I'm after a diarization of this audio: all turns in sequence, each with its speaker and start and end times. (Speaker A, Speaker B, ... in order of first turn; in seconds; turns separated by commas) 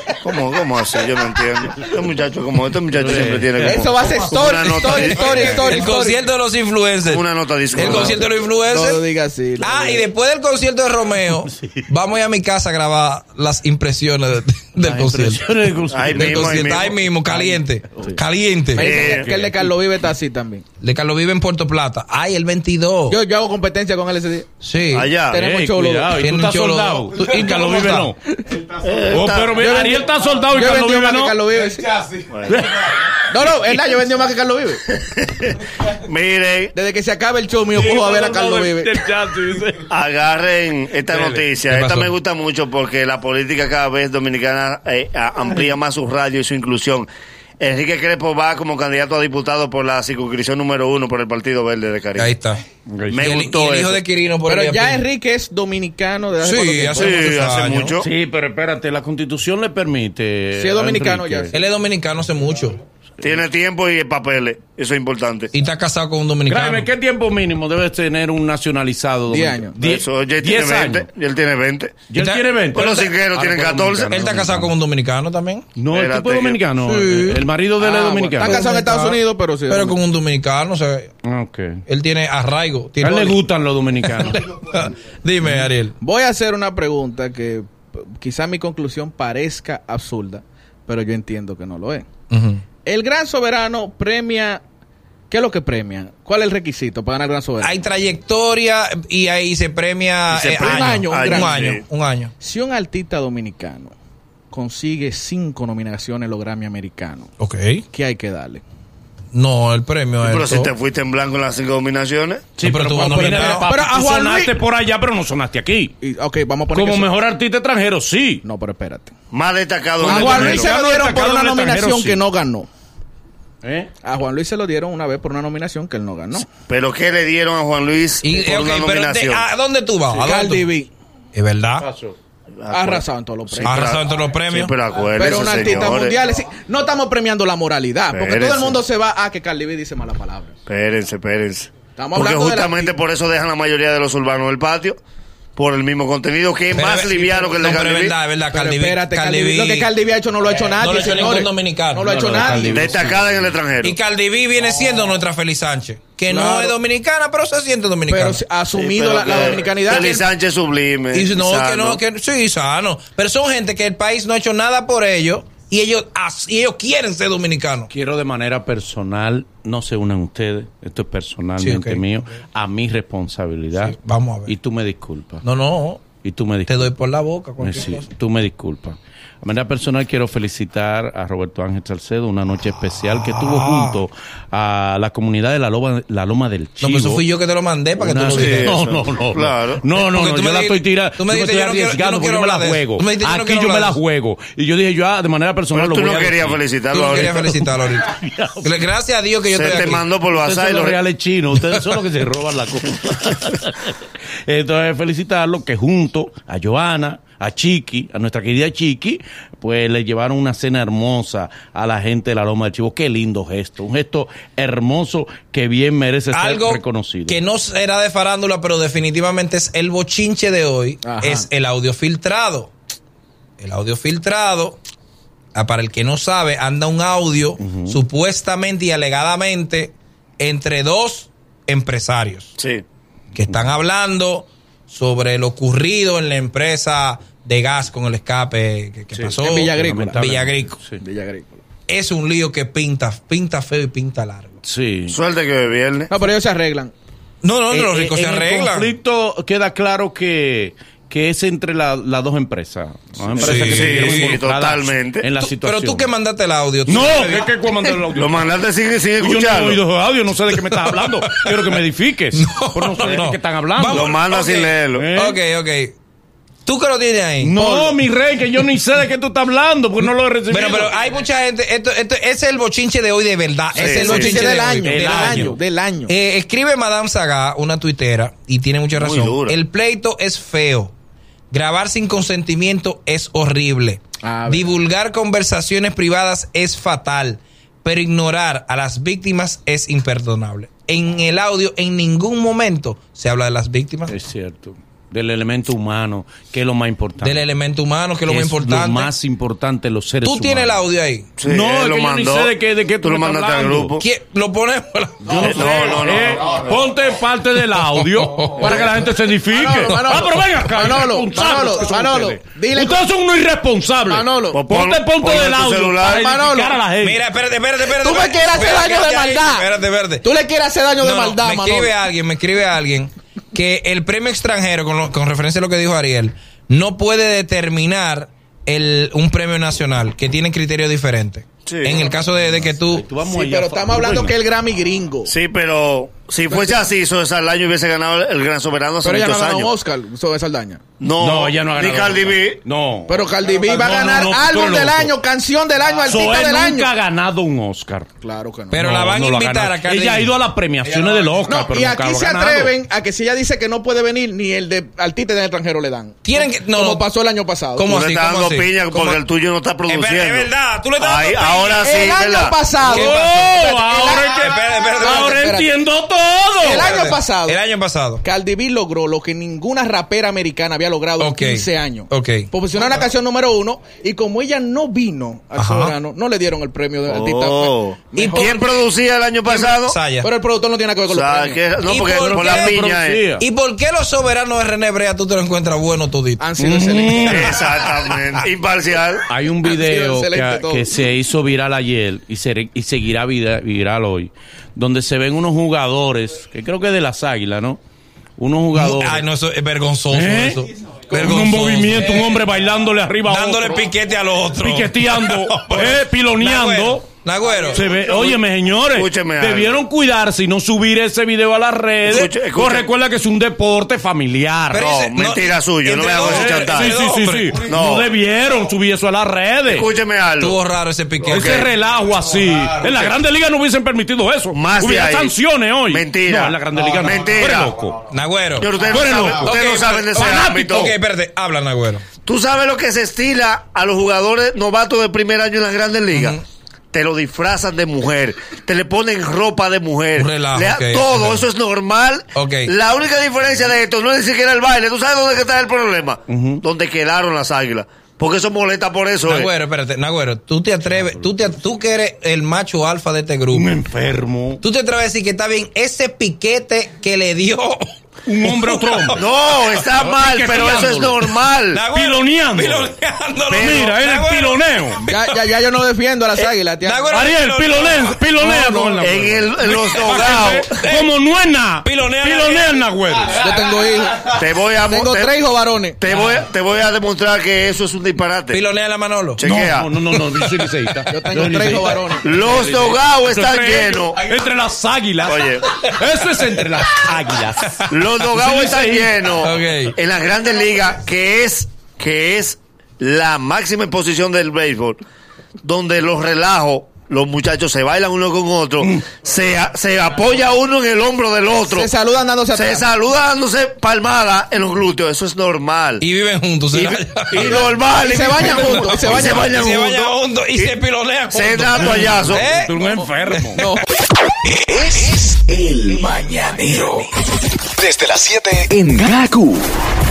Speaker A: 0.2-5.8, Speaker B: 2.9-4.0, Speaker C: 3.6-6.2, Speaker D: 4.6-9.0, Speaker A: 7.1-8.2, Speaker C: 7.8-10.0, Speaker D: 9.6-15.5, Speaker B: 14.8-18.2, Speaker A: 15.9-17.0, Speaker D: 16.1-18.9, Speaker C: 18.8-20.6, Speaker A: 18.8-19.3, Speaker B: 18.9-19.7, Speaker D: 20.8-23.2, Speaker C: 23.1-24.5, Speaker D: 24.6-25.1, Speaker A: 24.9-25.4, Speaker C: 25.3-26.2, Speaker B: 25.4-28.2, Speaker D: 26.1-28.1, Speaker A: 28.8-29.6, Speaker B: 29.1-31.4, Speaker C: 29.5-31.9, Speaker A: 32.3-32.7, Speaker B: 32.5-32.9, Speaker C: 33.3-34.8, Speaker A: 35.0-36.7, Speaker C: 36.7-39.0, Speaker B: 37.8-39.9, Speaker A: 39.9-47.1, Speaker B: 41.1-41.5, Speaker D: 41.7-42.1, Speaker A: 47.6-52.3, Speaker D: 52.2-52.6, Speaker B: 52.9-53.3, Speaker A: 53.1-54.0, Speaker D: 53.2-55.1, Speaker C: 54.5-57.3, Speaker D: 56.4-58.0, Speaker A: 57.0-58.1, Speaker B: 58.0-61.6, Speaker C: 60.5-61.6, Speaker D: 61.5-62.8, Speaker A: 63.2-65.5, Speaker D: 65.5-66.9, Speaker B: 66.5-71.1, Speaker C: 69.3-69.8, Speaker A: 69.8-72.0, Speaker B: 72.1-74.7, Speaker D: 72.2-73.1, Speaker A: 72.7-74.1, Speaker D: 74.0-75.7, Speaker B: 75.8-78.7, Speaker A: 75.9-76.6, Speaker C: 76.8-80.0, Speaker D: 78.4-81.1, Speaker B: 81.2-81.8, Speaker D: 81.9-83.4, Speaker B: 83.0-84.5, Speaker D: 84.3-86.0, Speaker B: 85.4-85.7, Speaker C: 86.0-92.1, Speaker D: 92.3-92.6, Speaker C: 92.8-94.6, Speaker C: 95.3-97.8, Speaker D: 97.6-102.3, Speaker A: 100.3-101.8, Speaker C: 100.6-101.8, Speaker C: 102.4-103.9, Speaker C: 104.5-107.3, Speaker D: 107.4-107.8, Speaker C: 107.9-108.6, Speaker D: 109.3-110.7, Speaker A: 110.2-112.5, Speaker B: 112.6-115.9, Speaker D: 112.6-113.7, Speaker C: 113.2-114.5, Speaker C: 116.0-117.1, Speaker B: 116.7-118.4, Speaker C: 118.4-119.1, Speaker A: 119.3-120.7, Speaker B: 120.0-122.2, Speaker C: 120.1-122.7, Speaker B: 123.6-123.9, Speaker C: 124.0-126.5, Speaker A: 126.7-129.5, Speaker D: 128.2-130.7, Speaker C: 130.2-130.9, Speaker D: 131.3-131.9, Speaker B: 131.8-132.2, Speaker A: 132.6-133.1, Speaker C: 132.7-133.9, Speaker A: 133.6-136.2, Speaker D: 133.6-134.7, Speaker C: 135.1-140.6, Speaker A: 138.1-138.8, Speaker A: 140.7-145.0, Speaker C: 142.0-143.0, Speaker A: 145.6-148.2, Speaker D: 146.7-149.9, Speaker C: 148.5-153.1, Speaker D: 150.8-152.1, Speaker B: 152.0-153.6, Speaker A: 152.7-154.0, Speaker D: 153.8-158.4, Speaker C: 156.3-156.8, Speaker C: 158.1-160.3, Speaker A: 158.7-162.0, Speaker D: 161.1-167.9, Speaker B: 167.9-175.4, Speaker D: 171.6-172.2, Speaker D: 173.8-174.6, Speaker D: 175.4-176.1, Speaker B: 176.2-176.9, Speaker D: 176.7-178.1, Speaker B: 177.6-187.3, Speaker D: 183.0-184.0, Speaker D: 186.8-188.8, Speaker B: 188.0-196.6, Speaker A: 188.3-189.8, Speaker D: 190.0-194.0, Speaker A: 195.7-197.5, Speaker D: 196.9-198.1, Speaker B: 197.2-198.8, Speaker D: 198.6-200.0, Speaker A: 199.5-201.0, Speaker B: 200.1-217.4, Speaker D: 216.3-222.7, Speaker C: 221.0-221.5, Speaker D: 223.6-224.8, Speaker D: 225.5-232.5, Speaker B: 227.6-228.0, Speaker A: 232.6-232.8, Speaker D: 233.3-240.8, Speaker B: 233.5-233.7, Speaker B: 239.1-241.0, Speaker C: 239.4-240.3, Speaker C: 241.0-241.6, Speaker D: 241.9-244.6, Speaker B: 244.6-245.2, Speaker A: 245.1-246.1, Speaker C: 246.1-246.9, Speaker D: 247.4-248.9, Speaker B: 247.7-256.1, Speaker A: 253.2-255.3, Speaker D: 253.4-254.4, Speaker D: 255.4-257.5, Speaker B: 256.9-258.6, Speaker A: 258.1-259.8, Speaker B: 259.2-264.2, Speaker D: 260.8-261.5, Speaker D: 262.3-266.0, Speaker A: 263.9-265.1, Speaker B: 264.9-265.4, Speaker D: 266.6-267.6, Speaker B: 267.4-271.0, Speaker C: 267.6-268.0, Speaker D: 270.5-275.4, Speaker A: 273.8-274.5, Speaker C: 273.8-276.1, Speaker B: 274.8-275.6, Speaker D: 276.1-280.9, Speaker A: 278.9-279.6, Speaker D: 281.5-294.1, Speaker C: 284.2-284.8, Speaker B: 294.1-297.4, Speaker D: 297.2-299.1, Speaker B: 298.3-300.9, Speaker D: 300.2-301.3, Speaker A: 301.4-304.1, Speaker B: 301.4-304.0, Speaker D: 304.0-305.4, Speaker B: 305.2-317.2, Speaker C: 305.3-306.1, Speaker A: 305.4-306.7, Speaker D: 307.8-308.8, Speaker C: 309.5-313.1, Speaker C: 314.1-314.6, Speaker A: 314.5-316.2, Speaker C: 316.0-316.8, Speaker D: 317.0-320.3, Speaker C: 317.8-319.7, Speaker C: 320.2-322.0, Speaker D: 321.0-333.1, Speaker A: 331.7-332.1, Speaker B: 332.6-334.3, Speaker C: 333.3-335.3, Speaker A: 335.3-339.8, Speaker C: 336.5-336.8, Speaker C: 339.0-340.8, Speaker A: 341.0-342.6, Speaker B: 341.2-345.1, Speaker C: 343.1-346.9, Speaker B: 346.0-348.1, Speaker C: 348.2-348.8, Speaker D: 348.7-350.3, Speaker B: 348.7-352.8, Speaker D: 350.9-351.3, Speaker C: 351.4-357.9, Speaker D: 356.2-357.1, Speaker D: 357.8-359.2, Speaker A: 357.9-362.6, Speaker D: 359.9-361.8, Speaker C: 361.8-365.7, Speaker D: 362.8-363.6, Speaker B: 362.9-366.9, Speaker D: 364.3-365.5, Speaker C: 366.6-367.6, Speaker D: 366.6-368.2, Speaker C: 368.2-378.7, Speaker D: 371.2-372.5, Speaker D: 375.6-375.9, Speaker A: 377.1-380.0, Speaker D: 378.2-378.7, Speaker C: 379.5-381.6, Speaker D: 379.7-380.3, Speaker A: 381.1-383.2, Speaker D: 381.9-382.9, Speaker B: 382.2-383.5, Speaker D: 383.4-386.5, Speaker C: 386.4-387.6, Speaker B: 386.6-387.6, Speaker A: 387.3-389.3, Speaker B: 389.3-397.8, Speaker C: 389.6-390.9, Speaker B: 398.4-399.3, Speaker D: 398.7-402.4, Speaker B: 400.1-403.8, Speaker D: 403.2-407.9, Speaker B: 404.6-407.1, Speaker B: 407.7-415.1, Speaker A: 407.9-408.4, Speaker A: 408.9-409.8, Speaker A: 412.1-412.9, Speaker D: 414.7-417.6, Speaker A: 415.0-417.0, Speaker B: 416.2-419.9, Speaker A: 417.6-418.1, Speaker A: 419.7-420.6, Speaker D: 420.4-421.5, Speaker A: 421.3-421.7, Speaker B: 421.3-428.0, Speaker A: 424.5-425.4, Speaker A: 425.9-427.7, Speaker D: 428.1-428.8, Speaker A: 428.6-430.9, Speaker B: 428.9-429.6, Speaker D: 429.4-432.1, Speaker B: 430.1-430.9, Speaker A: 432.2-436.4, Speaker D: 436.1-436.4, Speaker A: 436.9-449.5, Speaker D: 440.2-441.4, Speaker D: 442.4-442.7, Speaker B: 446.3-446.6, Speaker D: 449.3-453.7, Speaker B: 450.9-451.5, Speaker B: 453.5-454.6, Speaker D: 454.6-457.9, Speaker B: 458.3-459.2, Speaker D: 458.4-459.2, Speaker A: 459.2-461.8, Speaker B: 460.0-461.2, Speaker D: 461.7-465.4, Speaker B: 461.9-462.9, Speaker A: 463.5-463.9, Speaker B: 463.5-465.0, Speaker C: 465.1-467.1, Speaker D: 466.4-468.2, Speaker B: 467.1-473.4, Speaker C: 468.4-469.1, Speaker A: 469.0-470.8, Speaker D: 470.8-471.1, Speaker D: 471.8-473.5, Speaker C: 473.3-476.0, Speaker A: 474.2-475.4, Speaker A: 476.0-478.6, Speaker B: 476.1-476.4, Speaker D: 478.5-479.4, Speaker A: 479.4-479.9, Speaker B: 479.4-489.3, Speaker C: 481.1-482.3, Speaker A: 482.2-484.2, Speaker A: 485.2-485.7, Speaker A: 487.9-495.0, Speaker D: 489.4-490.0, Speaker A: 495.6-501.9, Speaker C: 501.6-502.9, Speaker A: 502.5-506.0, Speaker D: 506.0-507.6, Speaker A: 507.3-510.8, Speaker C: 507.4-509.6, Speaker D: 508.4-512.8, Speaker A: 511.3-512.5, Speaker B: 511.8-513.6, Speaker D: 513.3-513.7, Speaker C: 513.6-513.9, Speaker E: 514.7-517.1, Speaker E: 517.8-519.7